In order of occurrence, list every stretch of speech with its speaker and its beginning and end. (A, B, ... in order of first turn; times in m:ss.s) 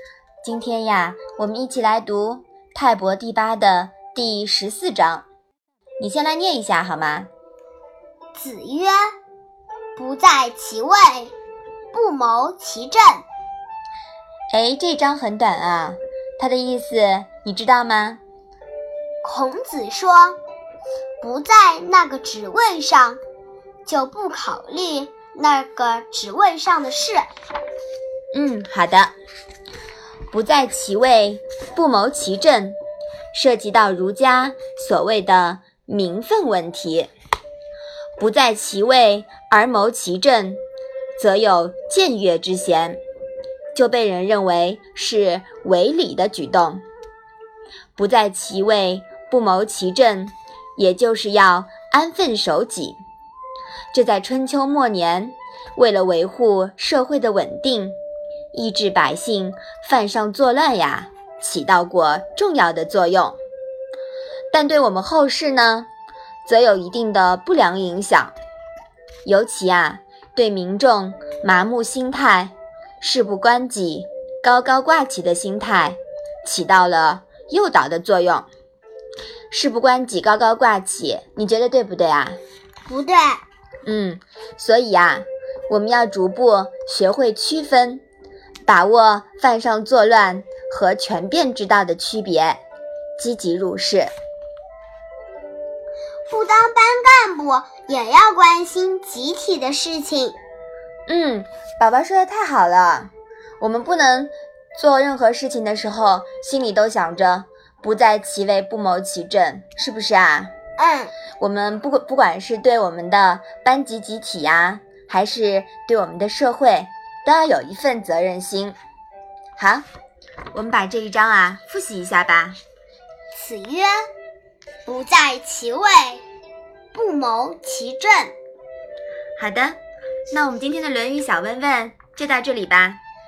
0:00.4-0:05.3 A
0:06.0-0:07.3 A
0:08.4-0:09.0 B
0:10.0-0:11.3 B
0:11.9-0:13.2 B
0:14.5-0:18.2 A
0:19.2-0:20.4 B
0:21.2-0:23.2 B
0:23.8-0:27.2 B
0:28.3-0:29.1 A
0:30.3-0:32.8 A
0:33.3-0:37.1 A
0:38.2-0:40.6 A
0:41.2-0:43.0 A
0:43.7-0:46.8 A
0:48.0-0:53.0 A
0:53.9-0:58.0 A
0:58.5-1:03.4 A
1:04.5-1:05.9 A
1:06.4-1:08.3 A
1:09.2-1:18.5 A
1:19.5-1:22.4 A
1:22.9-1:23.4 B
1:23.9-1:28.0 A
1:28.7-1:32.6 A
1:33.2-1:34.1 A
1:36.3-1:40.4 B
1:41.1-1:50.5 A
1:50.8-1:51.1 B
1:51.4-1:58.8 A
1:59.6-1:59.8 A
2:00.5-2:02.6 A
2:03.3-2:04.0 B
2:04.9-2:06.2 B
2:06.9-2:08.4 B
2:09.4-2:09.8 A
2:10.3-2:13.0 A